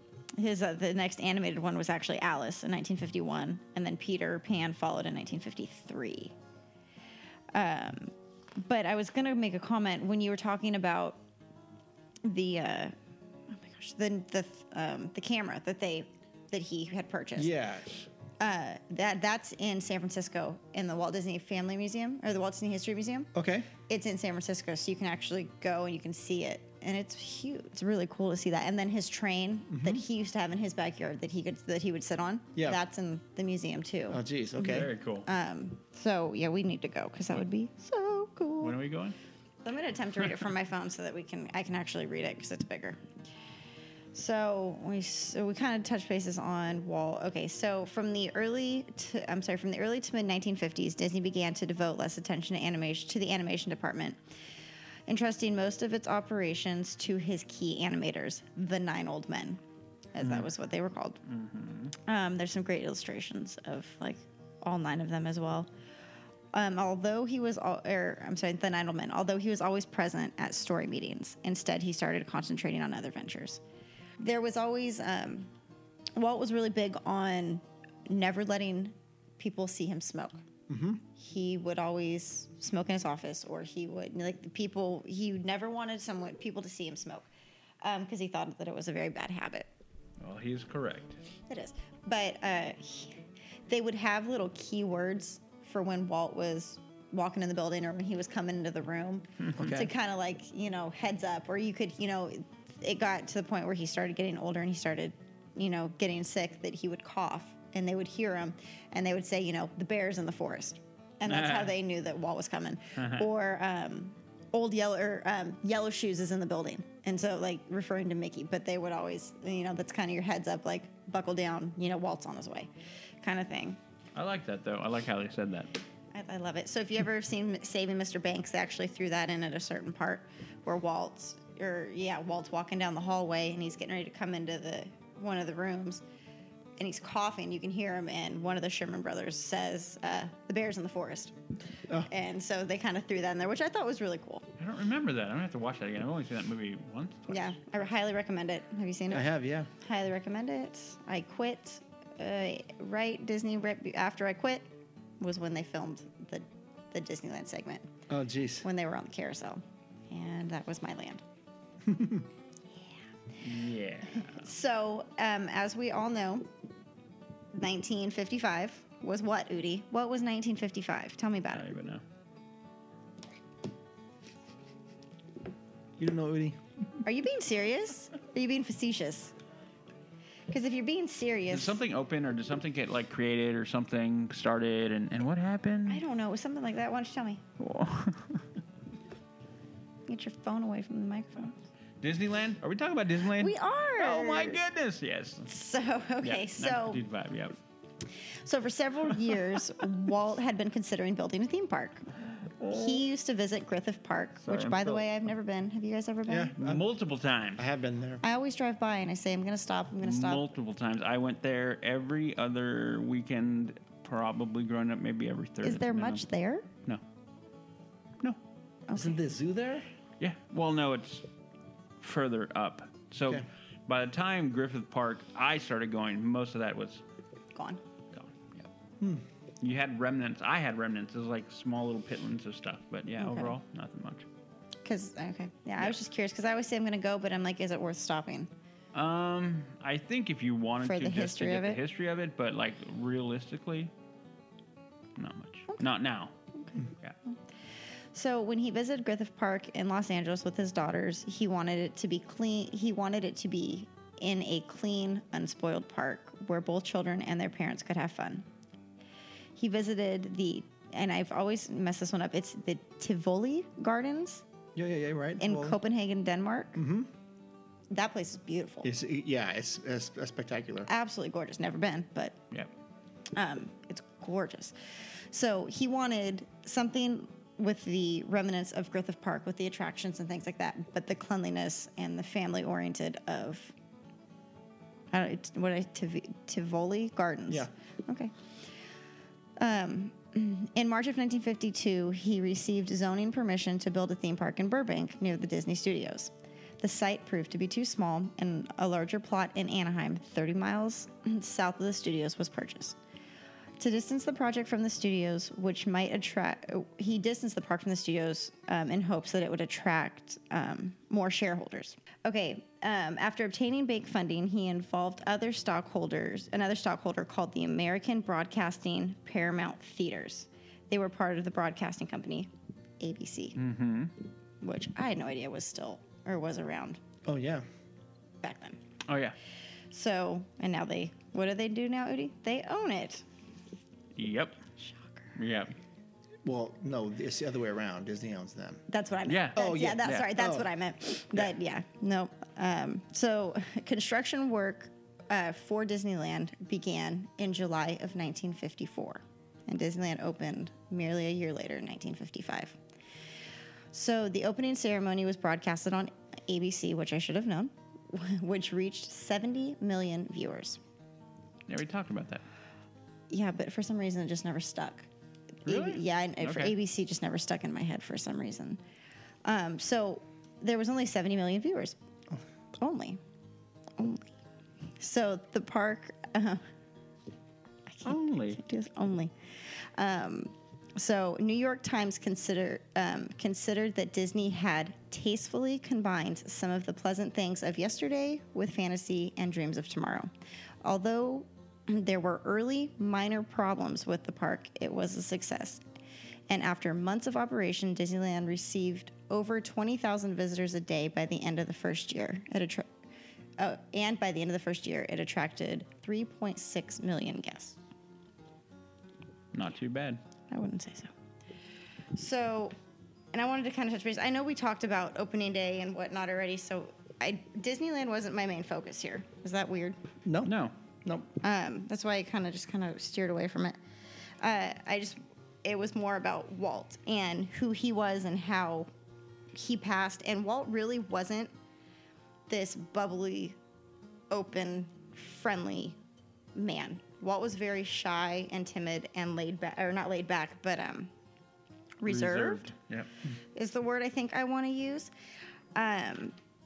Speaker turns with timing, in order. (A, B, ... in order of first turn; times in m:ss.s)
0:00.4-0:06.3 A
0:07.5-0:11.2 A
0:12.2-0:13.0 A
0:13.5-0:17.5 A
0:17.4-0:17.9 B
0:18.4-0:23.3 A
0:23.3-0:23.7 B
0:23.9-0:38.8 A
0:29.7-0:30.0 B
0:34.1-0:34.9 B
0:34.6-0:35.3 C
0:38.6-0:39.2 C
0:39.6-0:43.0 A
0:44.1-0:54.2 A
0:55.1-0:59.6 A
1:00.2-1:01.2 A
1:00.2-1:00.5 C
1:01.3-1:01.9 C
1:02.0-1:05.7 A
1:06.5-1:13.6 A
1:14.2-1:15.5 A
1:16.2-1:20.4 A
1:20.7-1:21.0 B
1:21.2-1:27.3 A
1:27.8-1:29.7 A
1:30.2-1:31.2 C
1:31.5-2:02.7 A
1:39.6-1:39.9 B
1:51.3-1:51.7 C
1:53.0-1:53.3 C
2:03.2-2:03.8 A
2:04.2-2:05.8 C
2:06.1-2:16.0 A
2:16.8-2:21.4 A
2:22.1-2:24.5 A
2:24.6-2:27.8 C
2:27.3-2:34.6 A
2:29.1-2:29.7 B
2:35.2-2:37.9 A
2:38.1-2:38.6 B
2:38.6-2:41.2 A
2:41.8-2:42.3 B
2:43.4-2:44.5 C
2:44.2-2:46.5 A
2:47.5-2:51.7 A
2:51.5-2:52.0 C
2:56.0-2:56.6 B
2:57.0-2:59.3 A
3:00.5-3:01.8 A
3:01.5-3:06.0 C
3:05.9-3:07.4 A
3:07.6-3:08.4 C
3:10.1-3:11.6 A
3:12.0-3:15.5 C
3:13.4-3:14.6 A
3:15.5-3:17.0 A
3:16.2-3:17.6 C
3:18.4-3:22.1 A
3:22.6-3:23.0 C
3:22.7-3:26.5 A
3:24.4-3:25.1 C
3:26.3-3:26.9 B
3:26.6-3:27.6 C
3:27.6-3:28.2 B
3:28.2-3:30.4 A
3:30.0-3:36.2 C
3:35.6-3:36.7 A
3:38.9-3:39.2 A
3:38.9-3:39.9 B
3:40.2-3:41.2 C
3:42.0-3:47.0 C
3:47.6-3:47.8 A
3:48.1-3:48.7 C
3:49.6-3:54.3 C
3:53.2-3:53.6 A
3:54.8-3:58.5 A
3:58.9-4:03.9 C
4:00.8-4:01.8 A
4:05.2-4:06.3 C
4:06.5-4:07.4 A
4:08.1-4:18.5 A
4:19.6-4:24.4 A
4:24.8-4:25.8 B
4:25.4-4:26.8 A
4:26.8-4:27.1 B
4:27.9-4:28.9 A
4:28.8-4:30.9 B
4:30.9-4:32.4 A
4:33.4-4:43.7 A
4:45.1-4:48.3 A
4:49.6-5:03.0 A
5:03.8-5:23.6 A
5:23.6-5:24.1 C
5:24.6-5:27.0 A
5:27.2-5:27.6 B
5:28.4-5:28.8 A
5:29.1-5:29.4 C
5:29.9-5:33.2 A
5:34.2-5:34.6 C
5:34.8-5:35.3 A
5:35.4-5:35.7 C
5:36.4-5:38.8 B
5:38.9-5:52.8 A
5:39.3-5:40.3 C
5:39.6-5:40.7 B
5:53.9-6:00.8 A
6:01.7-6:02.4 C
6:03.3-6:05.1 A
6:05.6-6:08.8 A
6:05.7-6:06.7 C
6:09.4-6:12.0 A
6:12.8-6:13.2 A
6:14.0-6:14.3 A
6:15.0-6:16.6 A
6:17.9-6:30.3 A
6:18.0-6:18.6 C
6:30.8-6:35.8 A
6:36.5-6:42.9 A
6:43.6-6:47.8 A
6:49.5-6:50.2 C
6:50.5-6:51.1 A
6:52.2-6:52.7 A
6:53.3-7:00.0 A
7:00.2-7:00.5 B
7:00.5-7:00.7 C
7:01.4-7:03.8 A
7:04.4-7:08.9 A
7:09.5-7:11.5 A
7:12.5-7:13.6 A
7:14.3-7:16.0 A
7:16.6-7:21.1 A
7:22.0-7:22.7 A
7:22.1-7:23.1 C
7:23.6-7:25.1 A
7:25.8-7:26.4 A